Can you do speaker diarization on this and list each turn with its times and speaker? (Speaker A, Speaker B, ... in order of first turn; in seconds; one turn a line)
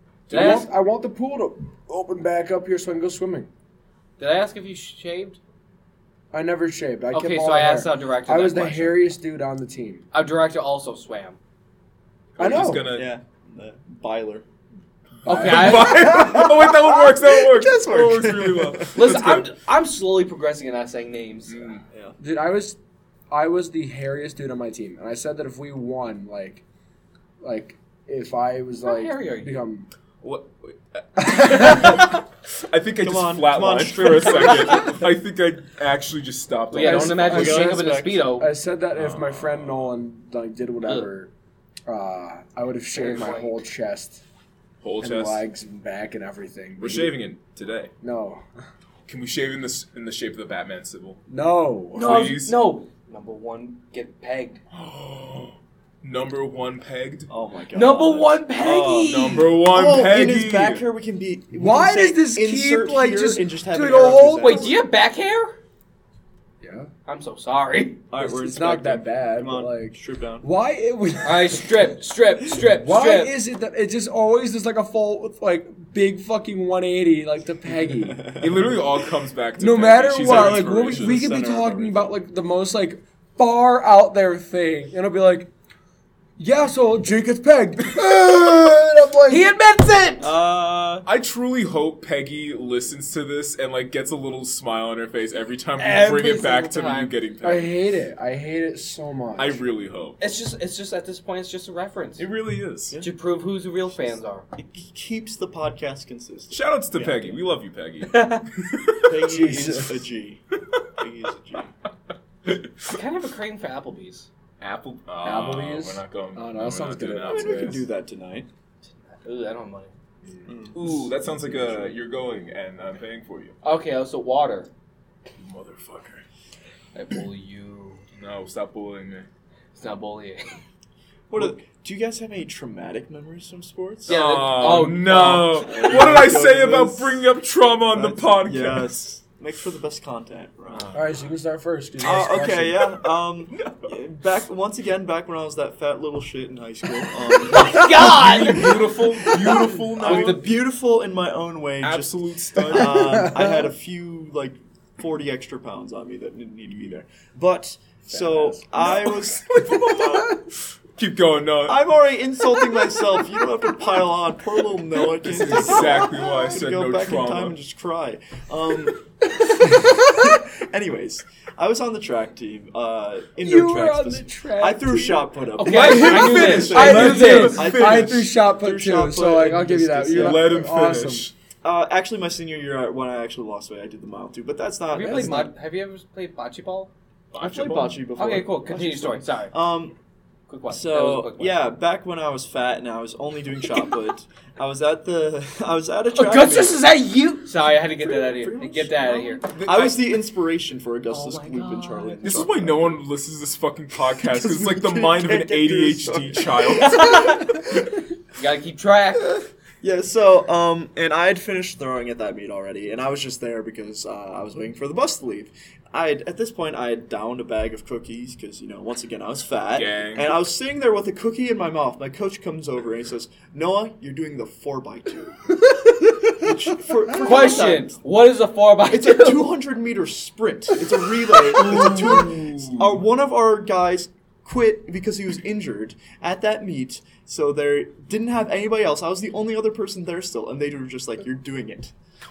Speaker A: 0.3-0.7
Speaker B: 0.3-3.5
Speaker A: 4.2-5.4
Speaker B: 6.3-10.0
Speaker A: 7.1-9.0
Speaker A: 10.1-11.4
Speaker C: 12.3-13.1
Speaker B: 12.4-12.9
Speaker D: 12.8-14.4
Speaker B: 15.2-17.1
Speaker A: 15.2-16.1
Speaker C: 15.3-19.5
Speaker D: 16.1-16.7
Speaker D: 17.2-19.1
Speaker A: 18.9-21.7
Speaker C: 21.5-21.8
Speaker D: 21.9-22.1
Speaker B: 22.2-22.8
Speaker B: 23.3-26.6
Speaker B: 27.4-29.9
Speaker A: 28.8-29.5
Speaker C: 30.2-37.7
Speaker B: 31.2-32.2
Speaker D: 33.0-35.0
Speaker A: 36.7-38.5
Speaker B: 36.7-41.3
Speaker D: 37.2-38.3
Speaker C: 38.9-39.9
Speaker B: 41.9-44.2
Speaker A: 42.9-43.6
Speaker C: 44.8-45.4
Speaker B: 45.0-47.1
Speaker C: 46.8-47.9
Speaker B: 48.0-48.4
Speaker C: 49.1-51.2
Speaker B: 51.3-52.3
Speaker A: 51.9-54.6
Speaker C: 52.0-52.5
Speaker C: 54.7-57.3
Speaker D: 57.3-64.8
Speaker A: 57.7-59.5
Speaker C: 59.0-60.8
Speaker B: 61.5-64.7
Speaker A: 64.4-65.6
Speaker B: 66.6-66.9
Speaker A: 67.0-68.0
Speaker D: 68.1-70.5
Speaker B: 68.2-71.8
Speaker A: 71.2-73.3
Speaker B: 72.6-78.3
Speaker D: 78.0-78.8
Speaker C: 78.4-81.2
Speaker B: 79.6-85.5
Speaker D: 80.1-82.1
Speaker B: 86.4-89.5
Speaker A: 89.3-90.3
Speaker D: 90.2-91.0
Speaker C: 91.0-97.7
Speaker A: 95.8-97.1
Speaker B: 97.4-99.6
Speaker C: 99.4-100.2
Speaker A: 100.2-102.2
Speaker C: 102.2-103.0
Speaker A: 103.0-104.5
Speaker D: 103.9-107.4
Speaker C: 106.5-109.2
Speaker A: 108.0-108.4
Speaker D: 109.0-110.4
Speaker B: 109.2-110.0
Speaker D: 111.0-111.7
Speaker C: 112.5-113.0
Speaker A: 112.9-114.3
Speaker C: 114.6-117.8
Speaker B: 115.2-117.8
Speaker D: 117.2-118.5
Speaker A: 119.0-119.9
Speaker C: 120.2-123.5
Speaker D: 120.5-122.0
Speaker A: 123.6-124.7
Speaker C: 125.3-126.2
Speaker A: 126.9-128.0
Speaker C: 128.2-129.2
Speaker A: 129.7-130.6
Speaker D: 131.3-137.2
Speaker A: 134.1-135.8
Speaker C: 134.1-138.9
Speaker D: 137.9-140.9
Speaker B: 140.9-142.9
Speaker D: 142.0-148.7
Speaker C: 143.5-143.9
Speaker A: 147.5-148.8
Speaker C: 147.7-150.4
Speaker D: 149.4-159.5
Speaker A: 150.0-150.5
Speaker C: 151.8-153.2
Speaker B: 152.7-153.7
Speaker B: 158.1-159.0
Speaker C: 158.8-161.9
Speaker B: 159.6-160.4
Speaker D: 161.7-180.8
Speaker C: 165.2-167.6
Speaker B: 169.5-170.3
Speaker B: 173.4-181.3
Speaker A: 175.6-177.5
Speaker C: 175.7-178.3
Speaker C: 180.1-181.3
Speaker D: 181.6-185.5
Speaker A: 184.9-186.9
Speaker C: 187.3-188.0
Speaker D: 187.4-189.9
Speaker A: 188.2-189.5
Speaker A: 190.5-191.6
Speaker D: 190.7-196.8
Speaker A: 196.1-199.4
Speaker D: 198.0-203.0
Speaker C: 199.5-200.0
Speaker A: 201.1-202.5
Speaker C: 202.2-207.4
Speaker D: 204.2-207.6
Speaker A: 206.8-207.5
Speaker A: 208.3-209.4
Speaker D: 209.8-225.6
Speaker C: 219.7-220.3
Speaker D: 226.3-228.0
Speaker A: 227.2-229.5
Speaker D: 228.9-241.9
Speaker C: 231.5-233.0